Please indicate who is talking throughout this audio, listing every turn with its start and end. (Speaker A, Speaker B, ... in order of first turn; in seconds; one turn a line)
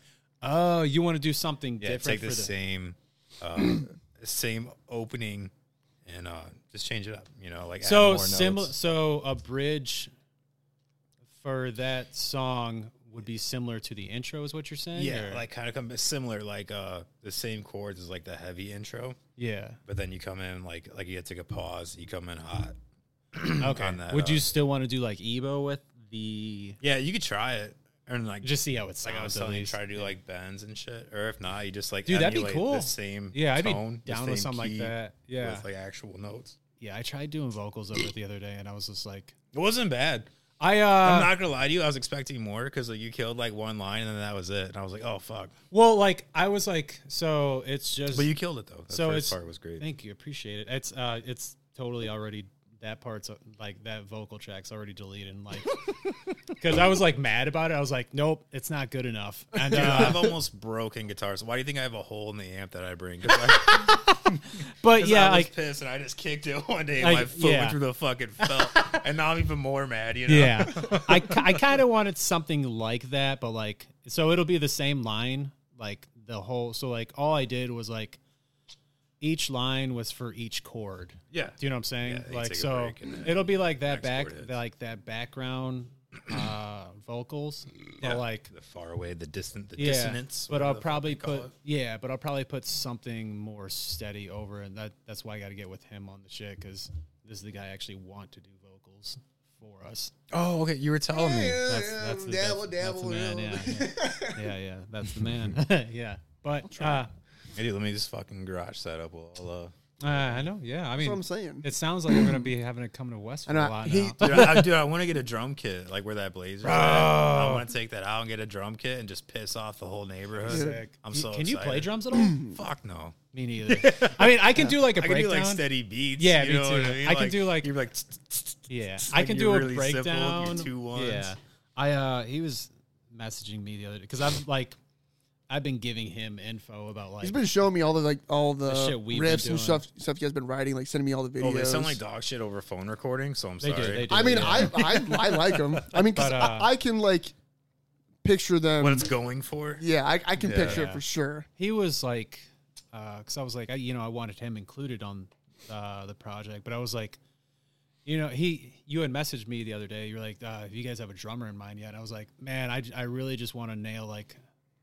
Speaker A: 0.4-2.5
Speaker B: 1.8-5.5
Speaker B: 6.1-8.8
Speaker A: 7.8-10.1
Speaker A: 11.4-15.4
Speaker B: 14.9-19.2
Speaker A: 19.4-19.8
Speaker B: 19.9-22.8
Speaker B: 23.3-24.5
Speaker A: 23.6-26.8
Speaker B: 26.8-36.6
Speaker A: 28.4-30.1
Speaker A: 32.1-35.6
Speaker A: 36.8-39.4
Speaker B: 39.5-40.3
Speaker A: 40.6-41.3
Speaker B: 41.0-45.5
Speaker A: 45.7-48.3
Speaker B: 48.1-49.9
Speaker A: 48.9-55.8
Speaker A: 56.6-60.3
Speaker B: 59.7-64.4
Speaker A: 63.7-64.2
Speaker A: 64.8-65.5
Speaker B: 65.0-71.7
Speaker A: 67.0-67.8
Speaker A: 68.4-69.0
Speaker A: 70.3-78.2
Speaker A: 79.2-88.5
Speaker B: 81.3-84.6
Speaker B: 88.0-91.5
Speaker A: 89.8-100.1
Speaker B: 100.3-101.6
Speaker C: 101.1-104.4
Speaker A: 101.7-107.1
Speaker B: 107.5-110.5
Speaker A: 110.0-114.7
Speaker C: 111.0-112.4
Speaker C: 113.5-114.7
Speaker B: 114.2-131.3
Speaker A: 116.6-117.7
Speaker A: 120.4-122.4
Speaker C: 120.5-120.8
Speaker C: 122.1-122.6
Speaker A: 123.3-125.7
Speaker A: 126.2-127.7
Speaker A: 128.7-134.8
Speaker A: 135.5-137.4
Speaker C: 137.2-142.0
Speaker A: 138.7-139.8
Speaker B: 141.4-145.8
Speaker A: 143.6-144.8
Speaker C: 144.1-147.3
Speaker A: 146.1-146.7
Speaker C: 148.2-149.1
Speaker B: 148.8-149.8
Speaker C: 149.8-151.5
Speaker B: 150.4-150.9
Speaker A: 150.5-151.0
Speaker A: 151.6-157.2
Speaker A: 158.1-164.4